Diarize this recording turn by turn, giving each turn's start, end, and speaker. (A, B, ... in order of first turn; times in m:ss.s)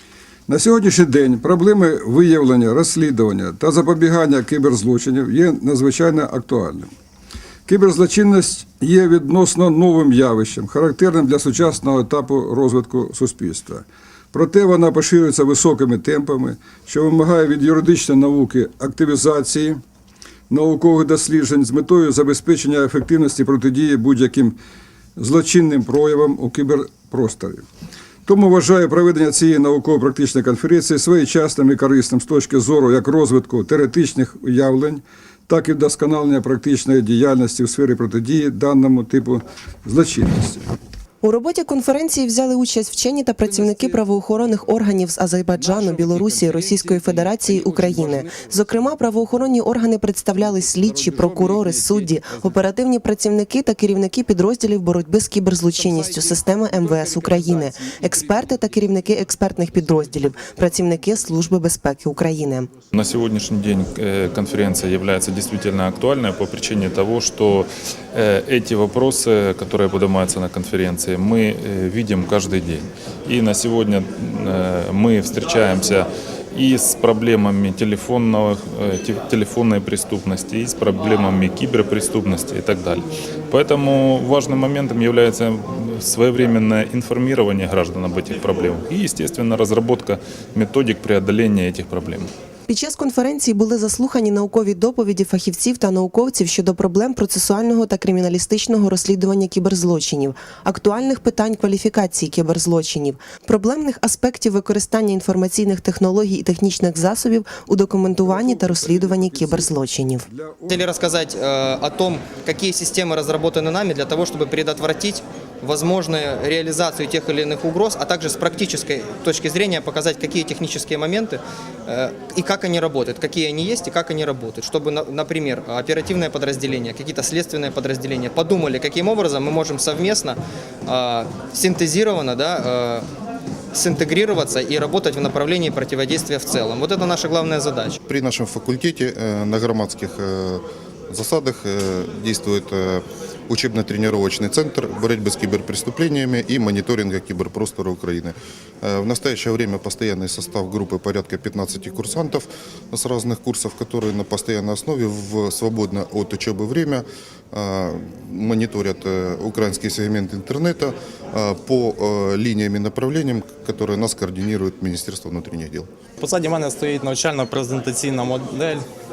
0:00.5-0:06.9 A
0:07.7-0:19.8 A
0:20.5-0:24.6 A
0:25.2-0:27.6 A
0:28.3-0:40.7 A
0:41.2-1:02.7 B
1:02.9-1:32.3 C
1:32.7-1:50.3 B
1:48.2-1:50.9 A
1:50.7-2:13.1 D
2:13.7-2:18.0 D
2:18.1-2:45.9 E
2:46.2-2:48.8 F